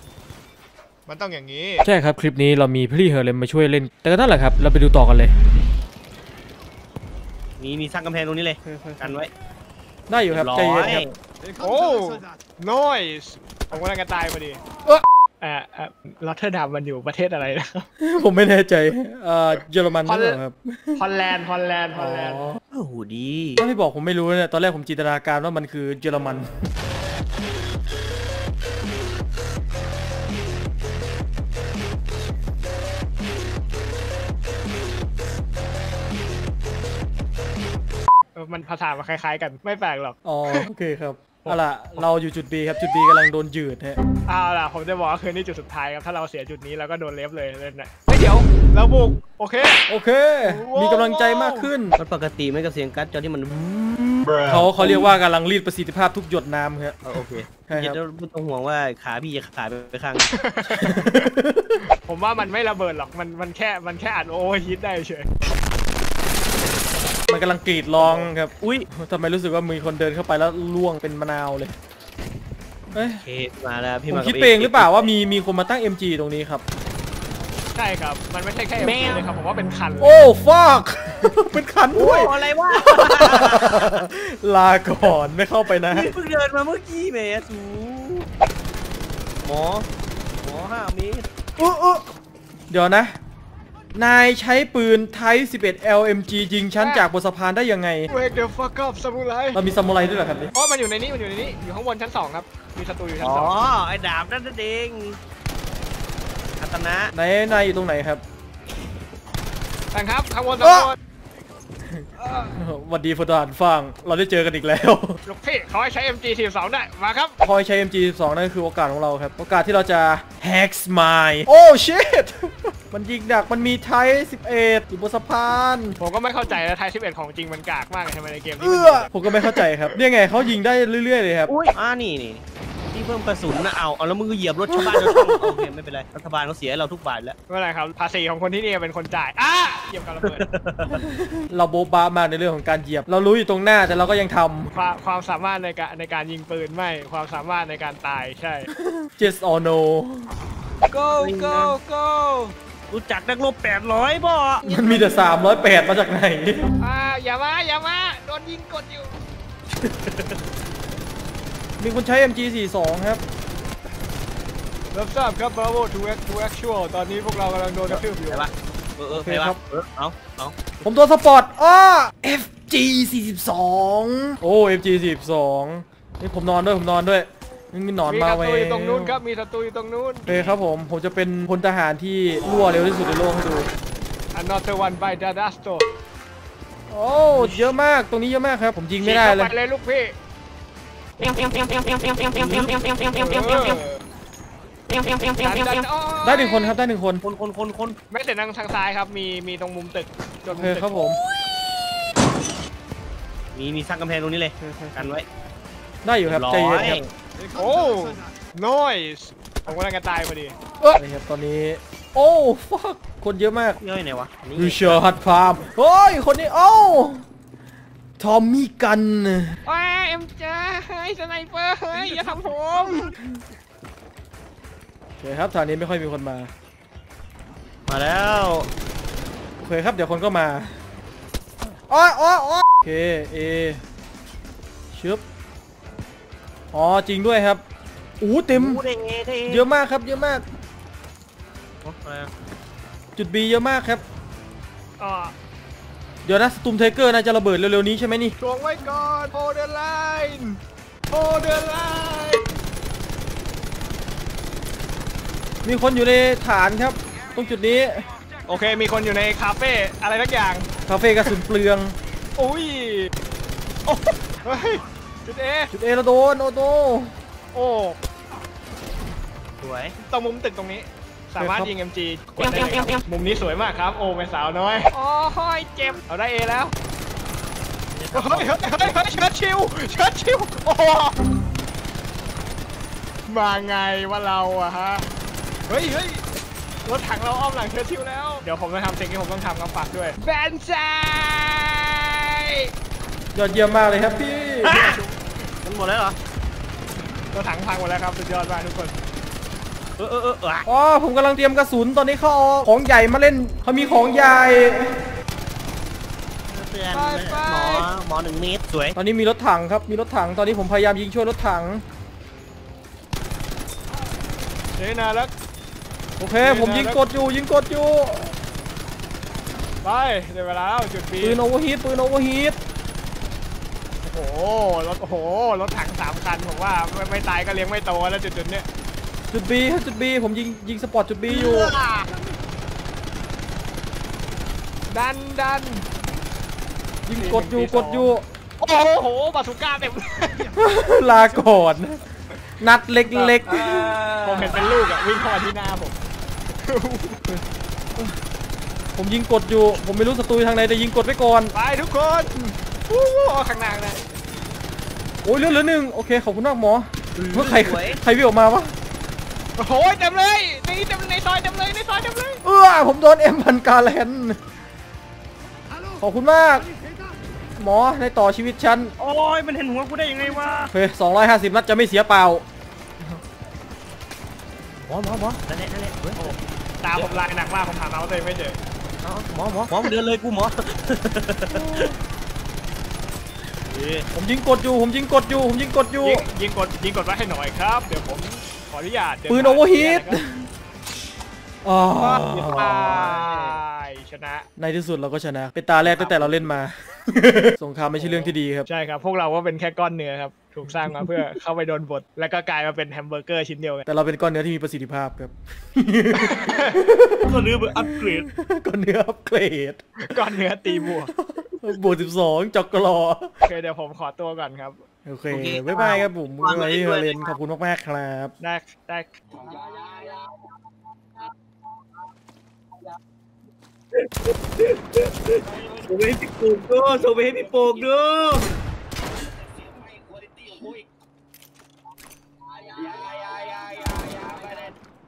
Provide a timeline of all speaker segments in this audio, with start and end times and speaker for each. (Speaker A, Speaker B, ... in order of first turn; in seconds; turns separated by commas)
Speaker A: 1.1-1.9, Speaker B: 1.8-5.3, Speaker C: 7.6-9.3, Speaker B: 8.6-9.2, Speaker B: 10.1-11.1, Speaker C: 10.3-11.1, Speaker A: 11.6-14.6, Speaker A: 15.4-17.9, Speaker B: 18.0-21.0, Speaker A: 20.0-20.4, Speaker A: 21.0-22.5, Speaker B: 21.9-22.6, Speaker C: 22.7-23.7, Speaker B: 23.6-26.5, Speaker A: 38.4-40.6, Speaker B: 40.2-44.0, Speaker A: 41.4-42.0, Speaker A: 44.3-49.8, Speaker B: 49.9-52.0, Speaker A: 50.4-51.7, Speaker C: 52.0-55.0, Speaker B: 54.5-57.0, Speaker C: 57.0-60.2, Speaker B: 57.7-58.0, Speaker A: 60.3-61.3, Speaker B: 60.8-61.8, Speaker A: 62.0-65.3, Speaker B: 67.3-71.8, Speaker C: 68.0-68.9, Speaker B: 72.9-73.2, Speaker C: 72.9-75.1, Speaker B: 74.1-76.6, Speaker A: 77.8-80.2, Speaker B: 80.0-86.1, Speaker C: 81.9-84.0, Speaker C: 85.7-88.3, Speaker C: 89.4-89.9, Speaker C: 90.4-91.2, Speaker B: 91.6-92.0, Speaker B: 92.7-93.1, Speaker B: 93.9-98.1, Speaker A: 96.8-97.0, Speaker A: 98.1-99.6, Speaker B: 99.5-100.5, Speaker A: 100.5-103.6, Speaker C: 103.2-105.2, Speaker C: 106.6-107.1, Speaker B: 107.1-108.2, Speaker A: 109.9-111.0, Speaker B: 110.6-110.9, Speaker A: 112.2-112.6, Speaker B: 112.6-115.2, Speaker A: 115.2-117.3, Speaker B: 117.4-126.0, Speaker A: 126.0-129.7, Speaker B: 128.6-131.5, Speaker C: 131.5-137.3, Speaker B: 134.7-135.6, Speaker A: 137.5-140.4, Speaker C: 140.2-141.0, Speaker B: 140.9-144.7, Speaker A: 144.7-148.7, Speaker B: 148.7-150.3, Speaker A: 150.9-152.5, Speaker C: 151.2-151.8, Speaker C: 152.9-154.7, Speaker B: 154.6-156.7, Speaker A: 156.8-159.2, Speaker C: 159.8-160.3, Speaker B: 161.8-163.2, Speaker A: 164.9-168.5, Speaker C: 167.9-170.5, Speaker B: 169.2-169.6, Speaker B: 170.8-179.2, Speaker A: 178.1-180.4, Speaker B: 180.3-183.7, Speaker C: 180.3-180.6, Speaker A: 184.3-185.8, Speaker B: 186.9-189.5, Speaker A: 187.3-187.7, Speaker A: 189.0-190.2, Speaker C: 192.3-193.4, Speaker A: 193.1-194.0, Speaker A: 195.3-196.8, Speaker B: 196.2-197.2, Speaker C: 197.2-198.0, Speaker A: 198.1-200.9, Speaker B: 200.5-201.2, Speaker C: 203.5-205.2, Speaker B: 204.6-205.1, Speaker B: 206.0-207.1, Speaker C: 206.2-207.0, Speaker A: 207.5-210.5, Speaker B: 210.8-213.8, Speaker C: 213.8-215.0, Speaker B: 214.6-217.2, Speaker B: 218.2-219.6, Speaker A: 219.7-223.1, Speaker B: 221.9-222.3, Speaker B: 222.9-223.2, Speaker B: 225.2-226.5, Speaker C: 227.9-228.7, Speaker B: 229.6-230.7, Speaker B: 231.9-233.8, Speaker B: 234.9-235.2, Speaker B: 236.7-237.6, Speaker B: 238.2-238.8, Speaker C: 238.5-239.7, Speaker B: 239.5-240.4, Speaker C: 241.8-242.3, Speaker B: 243.2-244.0, Speaker A: 245.0-245.3, Speaker B: 246.2-248.4, Speaker A: 248.4-252.5, Speaker B: 255.6-258.1, Speaker A: 258.5-260.7, Speaker B: 260.9-261.9, Speaker A: 262.4-263.1, Speaker A: 263.9-265.7, Speaker B: 265.7-267.1, Speaker A: 267.5-268.0, Speaker C: 269.6-269.9, Speaker A: 270.0-276.7, Speaker B: 271.4-271.7, Speaker C: 277.9-279.0, Speaker A: 278.1-281.1, Speaker A: 283.3-285.1, Speaker A: 285.7-286.2, Speaker A: 286.8-292.7, Speaker B: 293.3-294.9, Speaker C: 294.6-295.0, Speaker C: 295.6-296.2, Speaker A: 297.3-299.0, Speaker C: 300.0-300.7, Speaker B: 300.6-304.9, Speaker C: 306.5-308.9, Speaker A: 306.9-307.9, Speaker B: 308.9-311.8, Speaker A: 314.8-315.3, Speaker B: 316.2-318.4, Speaker A: 316.4-317.0, Speaker A: 319.8-321.4, Speaker B: 321.2-322.6, Speaker A: 324.0-328.7, Speaker B: 329.3-331.8, Speaker A: 331.3-332.1, Speaker A: 334.9-335.9, Speaker B: 337.1-338.2, Speaker A: 337.1-340.6, Speaker B: 340.6-342.0, Speaker B: 342.6-344.0, Speaker A: 343.1-343.5, Speaker A: 344.1-345.9, Speaker A: 346.5-347.2, Speaker B: 348.9-351.5, Speaker A: 351.5-354.0, Speaker B: 355.2-358.7, Speaker C: 357.1-358.0, Speaker A: 359.6-362.4, Speaker B: 362.4-364.4, Speaker B: 366.0-366.7, Speaker B: 367.6-368.9, Speaker C: 369.0-370.7, Speaker B: 370.7-372.4, Speaker C: 374.9-376.3, Speaker A: 376.1-378.6, Speaker C: 379.0-381.9, Speaker B: 381.6-381.9, Speaker C: 383.7-384.1, Speaker B: 384.1-386.2, Speaker A: 386.0-390.2, Speaker B: 389.3-390.5, Speaker B: 391.6-392.9, Speaker A: 392.0-394.4, Speaker C: 392.4-393.6, Speaker B: 394.6-398.7, Speaker C: 395.8-396.5, Speaker A: 397.9-403.8, Speaker B: 400.8-401.2, Speaker B: 403.9-410.1, Speaker A: 406.3-406.8, Speaker C: 407.3-408.3, Speaker A: 410.0-411.1, Speaker B: 410.7-413.3, Speaker A: 413.4-414.8, Speaker B: 415.1-418.3, Speaker C: 415.3-417.3, Speaker A: 418.4-419.1, Speaker C: 419.5-420.2, Speaker C: 424.6-428.5, Speaker C: 429.9-430.7, Speaker C: 432.6-434.7